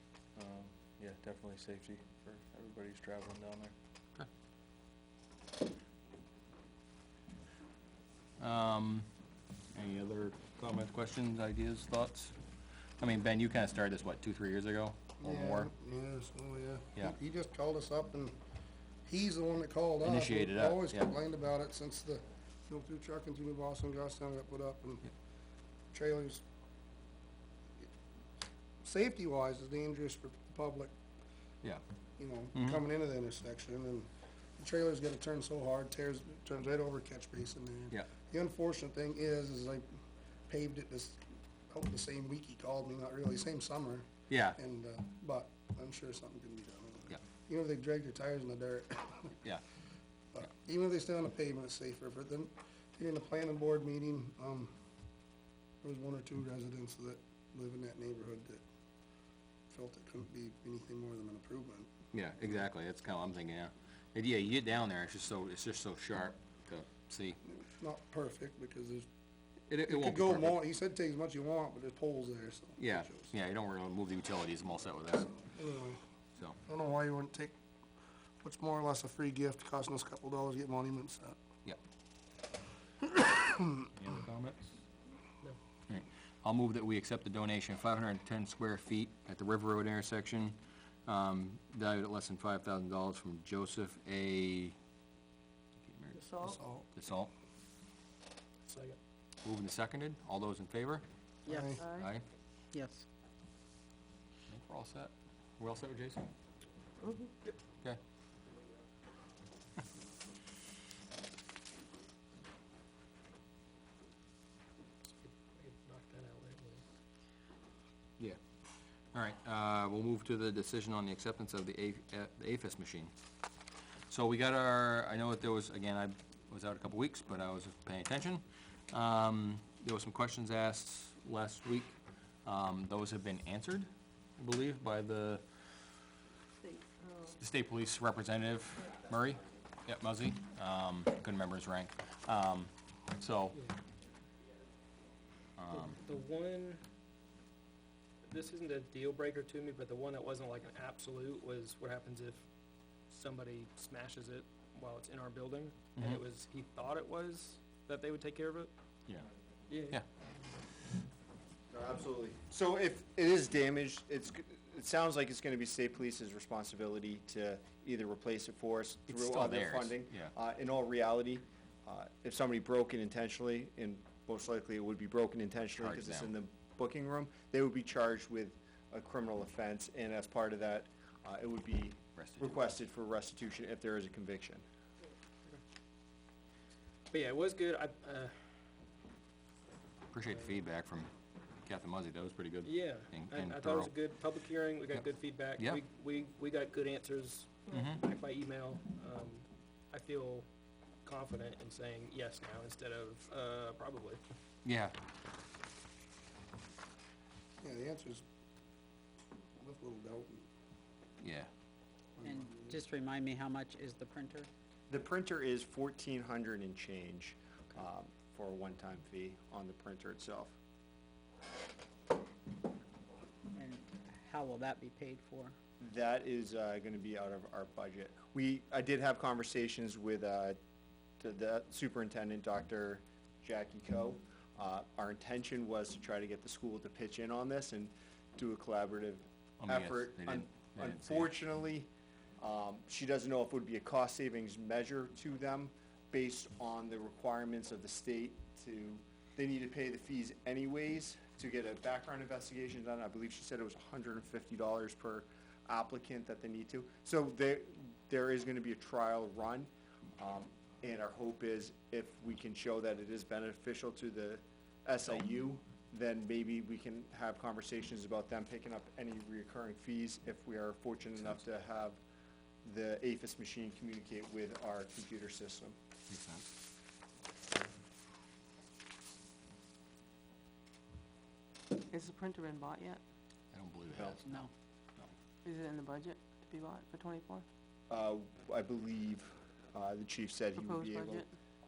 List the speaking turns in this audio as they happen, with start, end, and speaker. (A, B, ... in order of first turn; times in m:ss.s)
0:00.3-0:03.7 A
0:08.4-0:09.1 B
0:09.7-0:12.4 B
0:13.0-0:15.7 B
0:15.2-0:18.4 C
0:19.0-0:25.1 C
0:20.0-0:21.1 B
0:25.9-0:26.4 C
0:28.8-0:30.9 C
0:32.2-0:39.9 C
0:40.5-0:49.4 C
0:44.3-0:44.6 B
0:50.3-0:54.7 C
0:55.8-0:58.6 C
0:59.7-1:01.9 C
1:02.1-1:07.4 B
1:07.4-1:09.1 C
1:09.7-1:10.6 B
1:09.8-1:13.3 C
1:12.8-1:15.2 B
1:15.4-1:16.0 C
1:16.6-1:17.5 C
1:18.4-1:21.4 C
1:23.2-1:23.8 C
1:24.0-1:24.8 B
1:25.9-1:34.8 B
1:35.8-1:36.2 B
1:36.1-1:36.6 D
1:36.4-1:36.9 C
1:37.0-1:37.3 B
1:38.6-1:39.0 E
1:39.4-1:41.0 B
1:41.4-1:41.8 F
1:41.5-1:41.8 C
1:41.8-1:42.1 D
1:42.0-1:42.2 B
1:42.7-1:43.0 F
1:44.5-1:46.2 B
1:47.0-1:47.3 D
1:55.2-1:56.8 E
1:59.1-2:03.1 B
2:04.1-2:15.4 B
2:16.6-2:17.3 D
2:17.4-2:23.6 B
2:25.6-2:26.0 B
2:25.9-2:26.8 E
2:28.3-2:32.4 E
2:33.1-2:38.7 E
2:36.0-2:36.2 B
2:39.7-2:40.0 E
2:41.7-3:04.6 G
2:49.1-2:50.3 B
2:55.8-2:56.3 B
3:02.2-3:02.5 B
3:07.1-3:08.3 E
3:10.1-3:11.1 B
3:11.6-3:14.0 B
3:12.6-3:20.4 E
3:15.6-3:15.8 B
3:17.7-3:18.0 B
3:21.0-3:24.2 E
3:24.6-3:25.0 B
3:27.6-3:28.2 C
3:29.6-3:30.5 C
3:31.2-3:31.5 B
3:32.2-3:32.8 C
3:32.2-3:34.5 F
3:34.9-3:40.6 G
3:43.5-3:45.5 F
3:45.8-3:50.6 G
3:51.2-4:32.0 G
3:59.6-4:00.9 B
4:32.6-4:35.8 G
4:36.1-4:36.4 B
4:41.8-4:43.0 D
4:43.5-4:44.2 B
4:43.9-4:44.2 G
4:45.4-4:47.4 D
4:47.9-4:51.2 G
4:50.5-4:51.3 D